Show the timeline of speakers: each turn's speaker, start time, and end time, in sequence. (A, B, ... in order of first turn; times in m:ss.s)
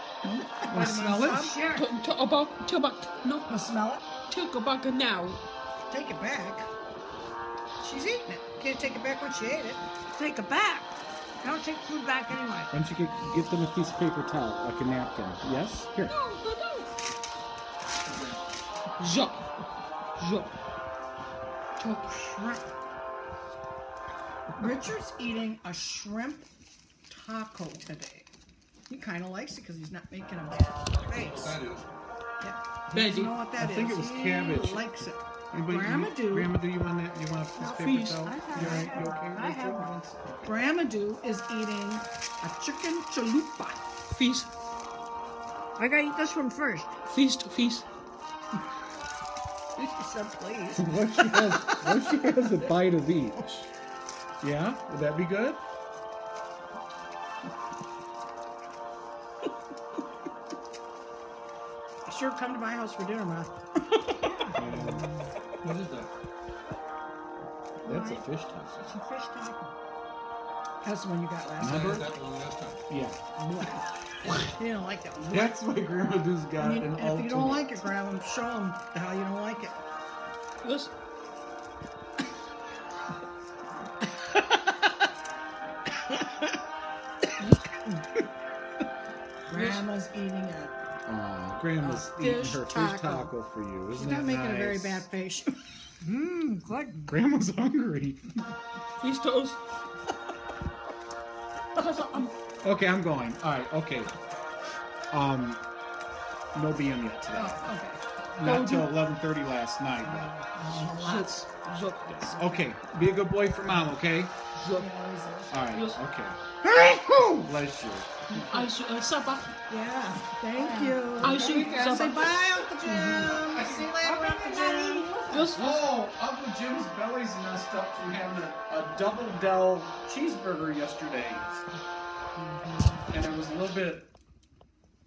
0:00.2-0:01.6 A
0:00.6-0:01.5 B
0:01.3-0:01.9 C
0:01.7-0:03.5 D
0:03.5-0:04.1 A
0:04.3-0:05.4 D
0:05.9-0:06.7 A
0:07.8-0:09.8 A
0:10.2-0:10.9 C
0:11.4-0:12.7 C
0:12.7-0:16.2 B
0:16.1-0:16.9 D
0:19.0-0:19.4 D
0:20.2-0:20.5 D
0:21.8-0:22.1 D
0:22.1-0:22.6 A
0:24.6-0:26.5 A
0:27.1-0:28.3 A
0:28.9-0:31.6 A
0:31.1-0:31.9 E
0:32.4-0:36.5 A
0:32.9-0:33.4 D
0:33.6-0:40.6 B
0:37.6-0:39.9 C
0:37.7-0:38.9 D
0:38.6-0:38.9 A
0:40.4-0:43.8 A
0:44.1-0:44.5 D
0:45.8-0:46.9 C
0:47.0-0:47.8 D
0:49.8-0:52.2 A
0:50.8-0:53.7 B
0:54.4-0:55.6 B
1:02.1-1:03.5 A
1:04.4-1:05.1 B
1:05.6-1:06.1 E
1:07.8-1:08.3 C
1:07.8-1:08.9 B
1:08.8-1:09.7 C
1:10.8-1:12.0 A
1:11.6-1:12.1 B
1:11.6-1:12.8 E
1:12.9-1:13.6 B
1:13.6-1:13.8 A
1:14.4-1:15.6 A
1:15.3-1:17.7 B
1:16.6-1:19.8 A
1:20.6-1:20.9 D
1:27.4-1:28.0 A
1:29.5-1:30.7 A
1:29.5-1:29.8 D
1:31.1-1:35.1 B
1:31.8-1:33.3 A
1:34.0-1:35.5 A
1:36.0-1:37.1 C
1:37.1-1:38.3 B
1:39.0-1:39.6 D
1:41.8-1:42.3 D
1:42.6-1:44.1 B
1:45.1-1:45.6 B
1:46.5-1:47.7 B
1:47.3-1:48.0 A
1:48.4-1:50.3 B
1:48.4-1:49.0 D
1:50.0-1:52.4 A
1:51.0-1:52.4 D
1:52.2-1:54.3 B
1:54.6-1:54.9 D
1:54.7-1:55.6 A
1:55.5-1:56.4 B
1:55.7-1:56.0 D
1:56.6-1:57.5 A
1:57.4-1:58.2 B
1:58.4-1:58.6 A
1:58.4-1:59.5 D
1:59.7-2:05.1 A
2:00.6-2:01.6 C
2:01.2-2:02.3 D
2:01.2-2:02.0 B
2:02.8-2:03.4 C
2:03.2-2:03.9 B
2:03.9-2:05.5 C
2:05.3-2:05.9 D
2:05.5-2:11.6 B
2:13.1-2:14.1 B